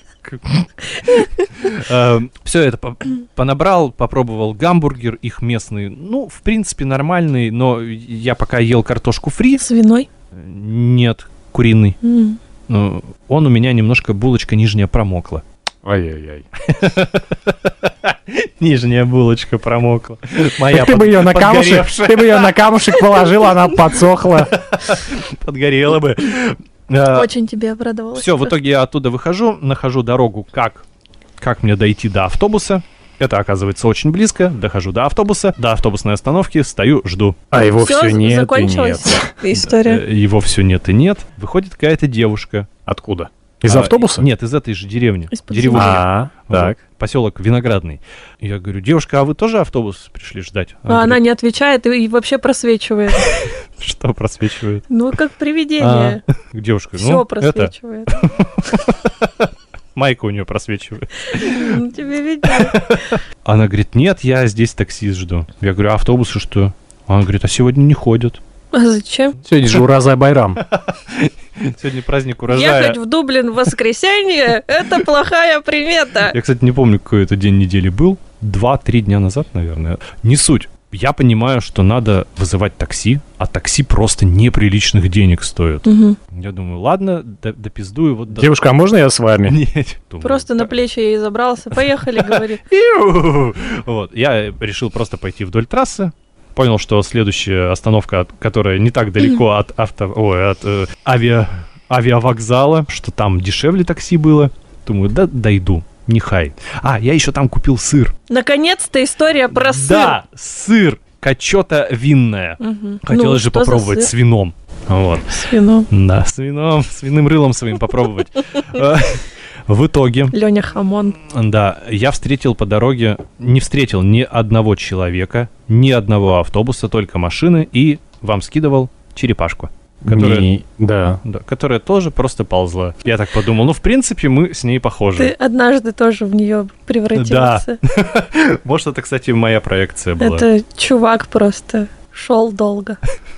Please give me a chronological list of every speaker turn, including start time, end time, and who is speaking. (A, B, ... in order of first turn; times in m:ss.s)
0:00.2-0:09.6 A
0:00.9-0:01.5 B
0:09.6-0:10.1 B
0:10.3-0:12.0 A
0:12.0-0:12.4 B
0:12.7-0:15.4 A
0:15.8-0:16.5 C
0:16.6-0:23.0 A
0:20.6-0:24.6 C
0:24.5-0:27.3 A
0:27.1-0:28.6 B
0:28.2-0:30.8 A
0:31.4-0:37.4 A
0:37.5-0:39.3 C
0:37.8-0:40.0 B
0:39.5-0:42.7 A
0:42.9-0:44.3 C
0:43.6-0:51.2 A
0:45.3-0:46.0 B
0:45.7-0:46.8 C
0:50.9-0:53.4 B
0:53.2-0:54.9 A
0:54.9-0:56.2 B
0:55.8-1:01.8 A
0:57.0-0:58.3 B
1:01.3-1:03.2 B
1:02.4-1:08.4 A
1:08.7-1:09.4 B
1:09.4-1:10.6 C
1:10.6-1:13.0 A
1:12.5-1:16.3 B
1:16.3-1:28.6 A
1:25.8-1:26.2 B
1:28.3-1:29.6 C
1:29.5-1:30.7 A
1:30.2-1:32.6 B
1:31.9-1:48.2 A
1:48.3-1:50.2 B
1:49.5-2:00.4 A
1:52.6-1:54.1 B
1:55.3-1:55.9 B
2:00.3-2:01.2 B
2:01.2-2:10.5 A
2:10.0-2:11.2 C
2:11.2-2:15.3 A
2:15.2-2:17.8 B
2:17.1-2:20.5 A
2:20.2-2:23.0 B